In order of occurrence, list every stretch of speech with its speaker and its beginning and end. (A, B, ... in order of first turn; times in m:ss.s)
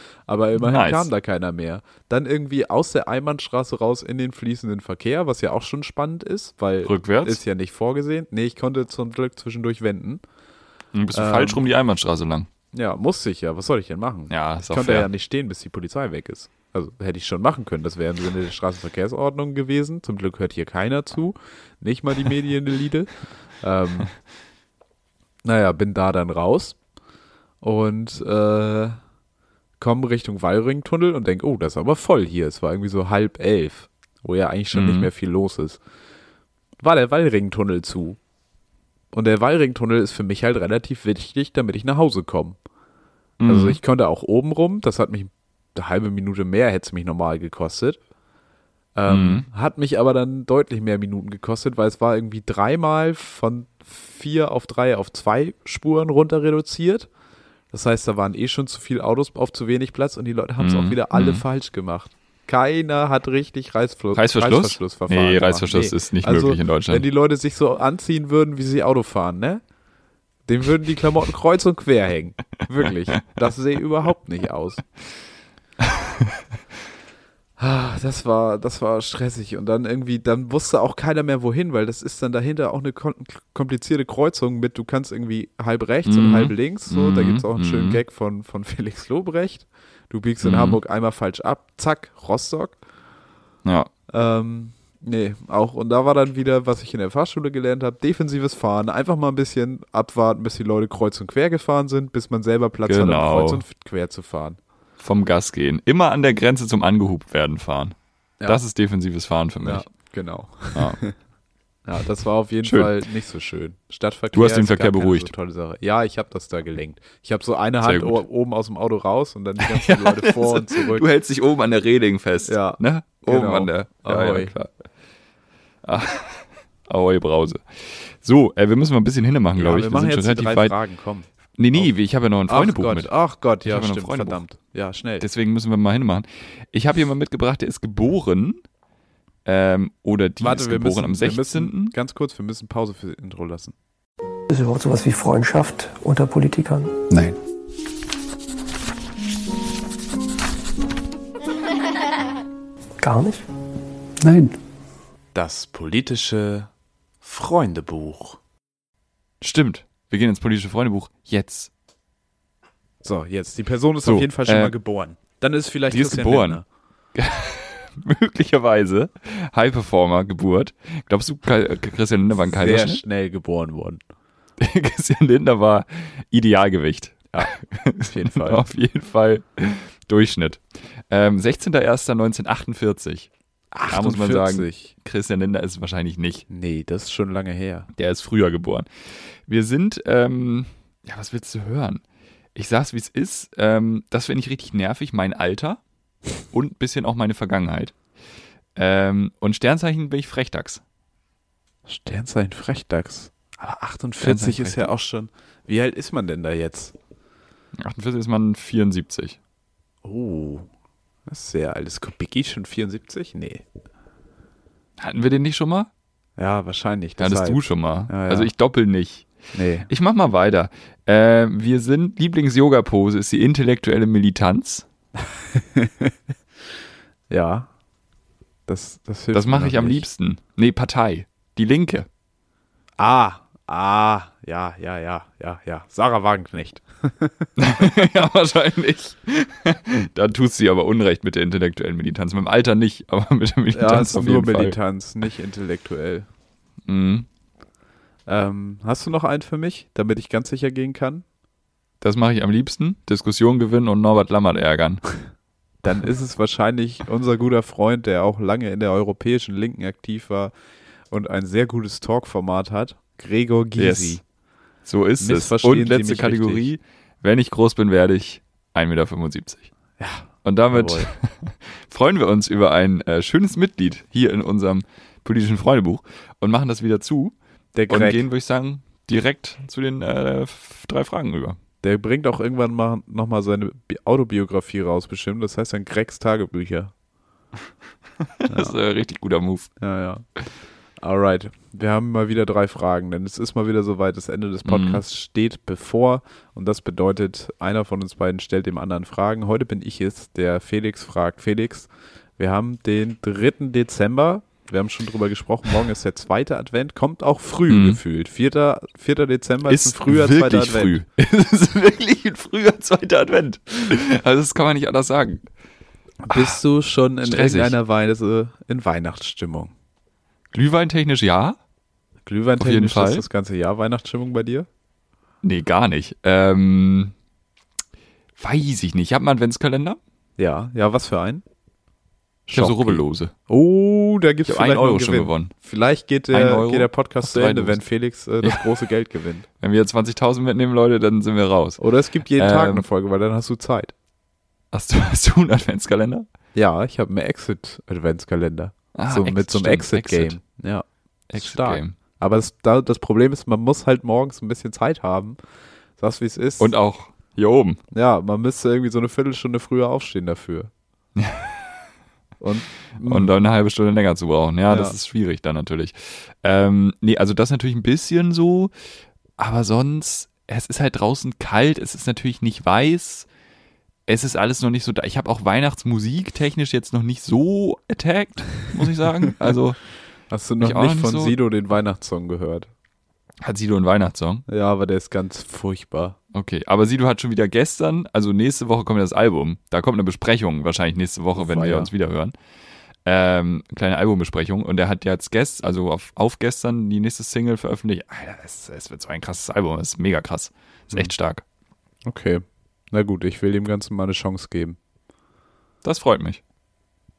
0:00.3-0:10.2 A
0:00.6-0:01.1 B
0:06.8-0:07.4 B
0:10.9-0:12.5 B
0:11.1-0:11.6 A
0:12.7-0:24.1 A
0:14.3-0:15.1 B
0:25.4-0:26.8 A
0:27.6-0:29.0 A
0:29.8-0:35.8 A
0:34.7-0:35.1 B
0:36.8-0:38.2 A
0:39.1-0:42.6 A
0:43.4-0:43.8 B
0:43.4-0:48.0 A
0:48.9-0:57.1 A
0:49.1-0:49.4 B
0:57.7-1:09.6 A
1:00.6-1:01.4 B
1:04.1-1:07.0 B
1:10.4-1:14.8 A
1:15.8-1:16.4 B
1:17.6-1:32.8 A
1:26.0-1:28.0 B
1:30.4-1:30.8 B
1:33.6-1:33.9 B
1:34.1-1:44.6 A
1:42.8-1:43.6 B
1:45.0-1:48.0 B
1:48.5-1:49.8 B
1:49.6-1:51.1 A
1:51.8-2:01.1 A
1:52.6-1:53.0 B
1:54.3-1:55.3 B
1:57.8-1:58.2 B
1:59.6-2:04.7 B
2:02.4-2:04.5 A
2:05.8-2:10.8 B
2:09.5-2:11.9 A
2:11.6-2:13.1 B
2:12.5-2:15.3 A
2:13.6-2:14.4 B
2:15.2-2:18.6 B
2:19.4-2:21.9 B
2:20.4-2:23.7 A
2:24.5-2:27.4 C
2:33.0-2:33.4 C
2:34.2-2:34.6 C
2:35.3-2:36.7 A
2:37.2-2:38.4 A
2:39.4-2:41.7 B
2:43.0-2:46.6 A
2:44.0-2:44.7 B
2:45.9-2:46.6 B
2:47.1-2:53.0 B
2:52.5-2:54.0 A
2:54.6-3:03.3 B
2:58.0-2:58.6 A
3:03.7-3:04.9 A
3:03.9-3:06.4 B
3:06.5-3:07.9 A
3:07.9-3:08.9 B
3:09.4-3:12.0 B
3:12.5-3:15.8 B
3:16.5-3:17.9 B
3:18.8-3:20.8 B
3:21.9-3:26.9 A
3:24.2-3:24.9 B
3:27.8-3:29.4 B
3:30.0-3:30.7 A
3:31.3-3:33.6 A
3:35.0-3:35.9 B
3:36.4-3:38.5 A
3:37.2-3:39.3 B
3:39.5-3:39.9 A
3:39.9-3:44.8 B
3:45.5-3:46.1 A
3:47.3-3:47.7 A
3:48.7-3:50.0 A
3:49.3-3:52.1 B
3:53.0-3:58.0 A
3:57.6-4:04.8 B
4:03.7-4:06.2 A
4:06.8-4:07.3 B
4:08.3-4:11.2 A
4:12.0-4:15.0 B
4:15.8-4:20.5 A
4:21.1-4:24.2 A
4:23.8-4:24.2 B
4:24.8-4:29.7 B
4:25.2-4:26.6 A
4:30.0-4:31.1 A
4:30.4-4:37.3 B
4:37.7-4:38.2 A
4:37.9-4:41.6 B
4:41.8-4:46.9 A
4:48.2-4:49.7 B
4:48.5-4:48.7 A
4:49.8-4:50.2 A
4:51.0-5:11.0 A
4:54.6-4:55.0 B
5:07.7-5:08.0 B
5:09.7-5:15.4 B
5:16.2-5:19.7 A
5:16.3-5:16.6 B
5:17.2-5:17.8 B
5:20.5-5:21.6 B
5:22.2-5:24.7 A
5:22.6-5:23.2 B
5:25.4-5:27.1 B
5:28.4-5:30.0 B
5:30.4-5:31.4 A
5:32.5-5:39.4 A
5:32.5-5:33.3 B
5:34.5-5:35.5 B
5:36.3-5:37.8 B
5:38.4-5:38.7 B
5:39.6-5:41.8 B
5:41.8-5:43.9 A
5:42.3-5:42.8 B
5:44.7-5:46.3 B
5:46.5-5:55.4 A
5:48.9-5:50.4 B
5:51.3-5:52.0 B
5:56.0-5:56.7 A
5:56.6-5:57.8 B
5:57.9-6:00.7 A
6:01.2-6:01.6 B
6:02.4-6:03.3 A
6:03.0-6:08.7 B
6:04.7-6:05.0 A
6:09.4-6:13.3 B
6:14.1-6:19.8 B
6:20.3-6:22.7 A
6:20.6-6:21.4 B
6:23.4-6:24.4 B
6:24.5-6:26.2 A
6:26.3-6:32.3 B
6:31.3-6:31.9 A
6:33.0-6:41.4 B
6:42.0-6:44.8 A
6:45.8-6:46.4 B